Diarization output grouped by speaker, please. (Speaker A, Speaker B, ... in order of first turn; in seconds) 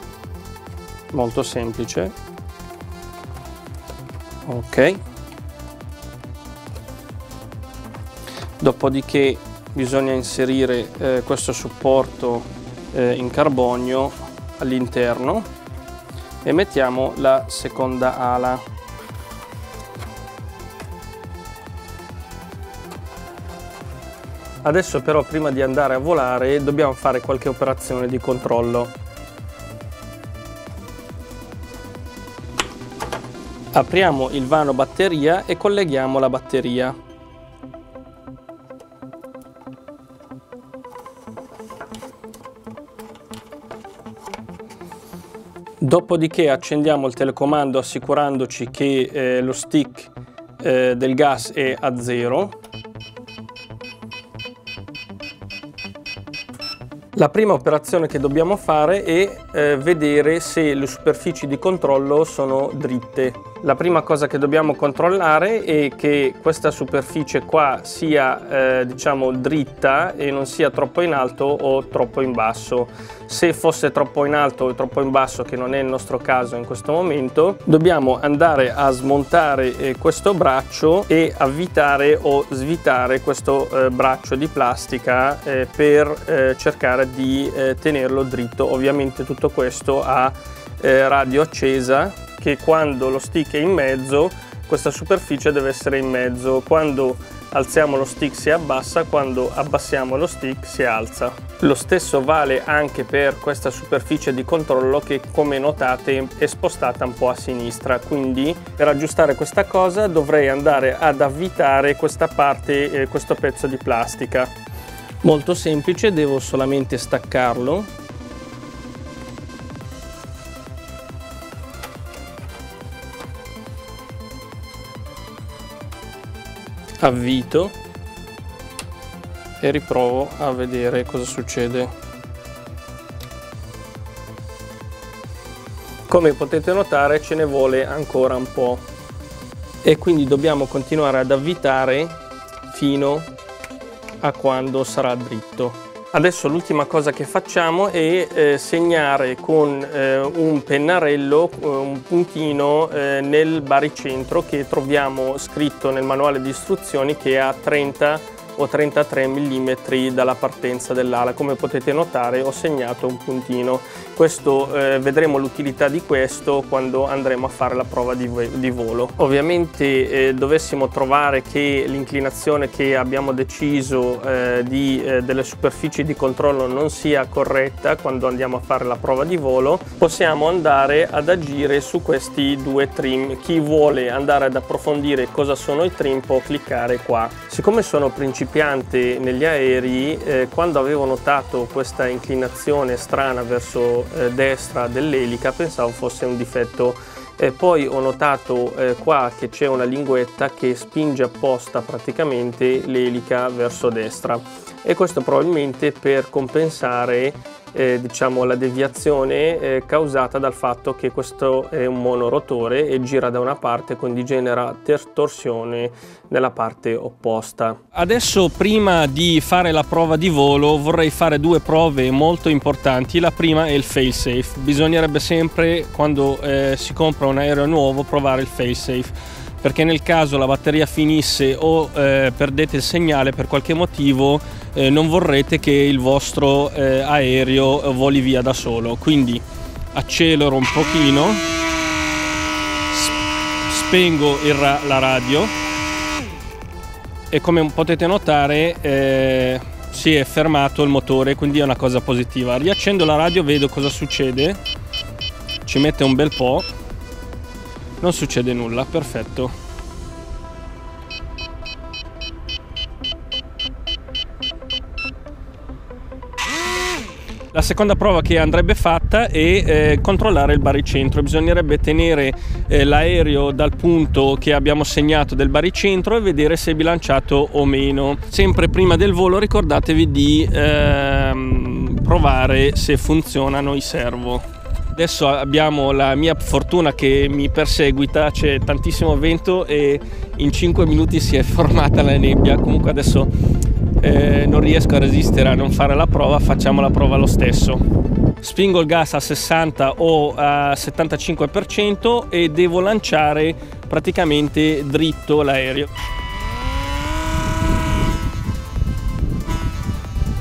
Speaker A: 1.1-2.1, 4.5-5.0, 8.6-15.5, 16.4-18.6, 24.6-28.9, 33.7-37.0, 45.8-52.5, 57.1-114.5, 115.2-117.9, 127.0-127.8, 129.6-131.9, 136.1-138.8, 139.8-142.2, 142.7-143.3, 144.2-241.4, 242.9-243.2, 243.7-245.5, 247.3-254.6, 255.6-256.7, 258.0-259.5, 267.5-293.3, 294.0-297.8, 298.4-305.9